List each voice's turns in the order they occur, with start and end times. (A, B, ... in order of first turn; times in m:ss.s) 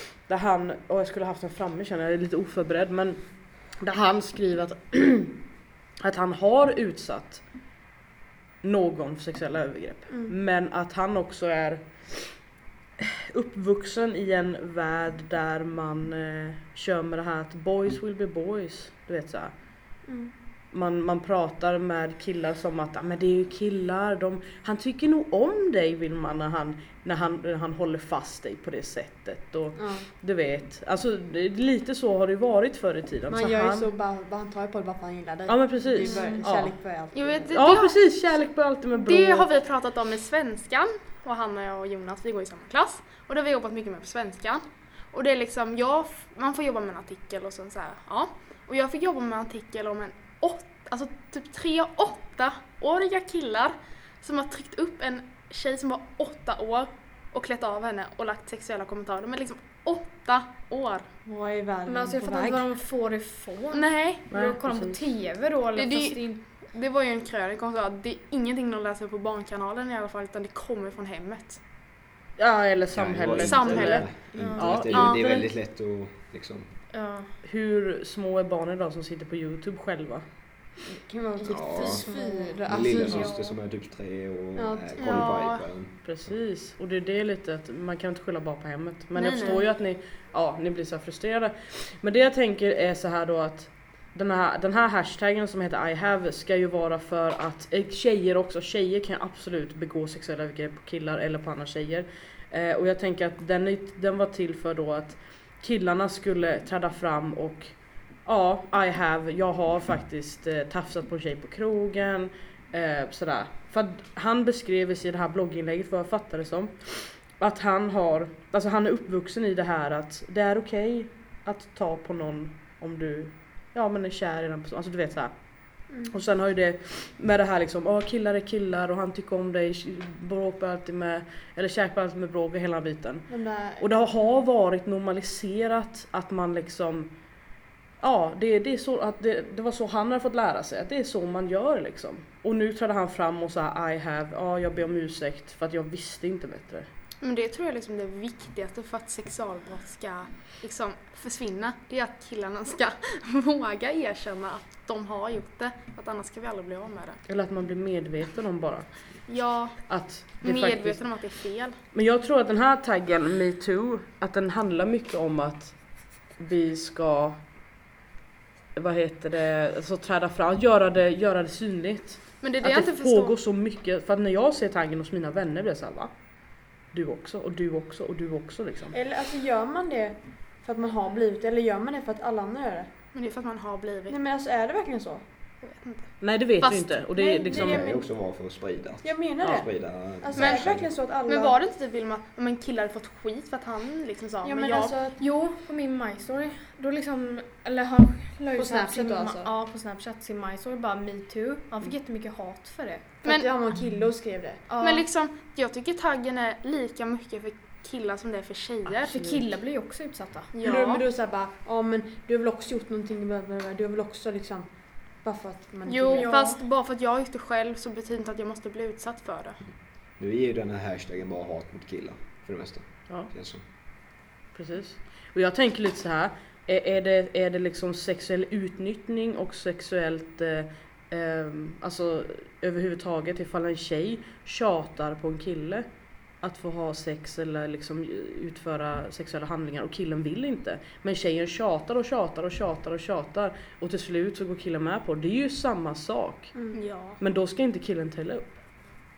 0:00.2-0:05.4 A
0:06.0-0:07.4 A
0:08.6-0:12.4 A
0:10.1-0:10.3 B
0:13.0-0:19.5 A
0:20.0-0:20.3 B
0:20.7-0:33.9 A
0:29.8-0:30.1 B
0:33.3-0:37.6 B
0:35.5-0:36.8 A
0:36.0-0:36.5 C
0:37.1-0:44.6 D
0:37.5-0:39.5 A
0:45.1-1:01.1 D
1:01.2-1:02.7 B
1:01.9-1:06.4 C
1:03.7-1:04.3 D
1:04.3-1:05.0 A
1:05.7-1:11.6 D
1:12.4-1:15.4 A
1:12.9-1:16.7 E
1:13.4-1:14.2 D
1:14.4-1:15.2 C
1:14.9-1:15.3 D
1:16.9-1:17.3 C
1:17.4-1:20.3 A
1:20.8-1:23.3 B
1:21.4-1:21.9 D
1:21.5-1:22.1 E
1:21.8-1:23.6 C
1:22.7-1:26.3 E
1:24.6-1:25.3 B
1:25.0-1:25.6 D
1:26.0-1:47.8 A
1:29.2-1:29.7 D
1:48.3-2:17.1 A
2:05.9-2:06.1 B
2:13.3-2:13.9 B
2:18.0-2:26.9 A
2:27.2-2:37.2 D
2:37.3-2:38.9 A
2:39.3-2:41.8 D
2:39.9-2:41.0 A
2:41.9-2:45.8 A
2:46.4-2:47.4 A
2:48.8-2:56.1 A
2:52.4-2:53.4 D
2:56.9-2:59.0 A
2:58.9-3:02.9 B
3:03.1-3:04.2 D
3:04.1-3:05.2 B
3:05.6-3:07.0 D
3:06.2-3:07.9 A
3:07.1-3:08.1 B
3:07.5-3:10.9 E
3:09.0-3:11.6 B
3:10.4-3:10.7 D
3:11.2-3:15.0 D
3:14.4-3:15.2 B
3:15.2-3:23.1 C
3:18.6-3:19.5 B
3:23.2-3:24.6 B
3:23.2-3:23.5 D
3:24.7-3:25.1 C
3:24.8-3:29.1 D
3:29.0-3:30.6 C
3:29.2-3:29.5 A
3:30.5-3:31.0 D
3:30.6-3:34.7 B
3:35.2-3:36.4 B
3:35.9-3:39.6 D
3:36.2-3:36.6 C
3:40.2-3:43.6 E
3:44.5-3:55.9 A
3:56.4-4:06.6 A
4:06.7-4:07.2 D
4:07.2-4:08.6 A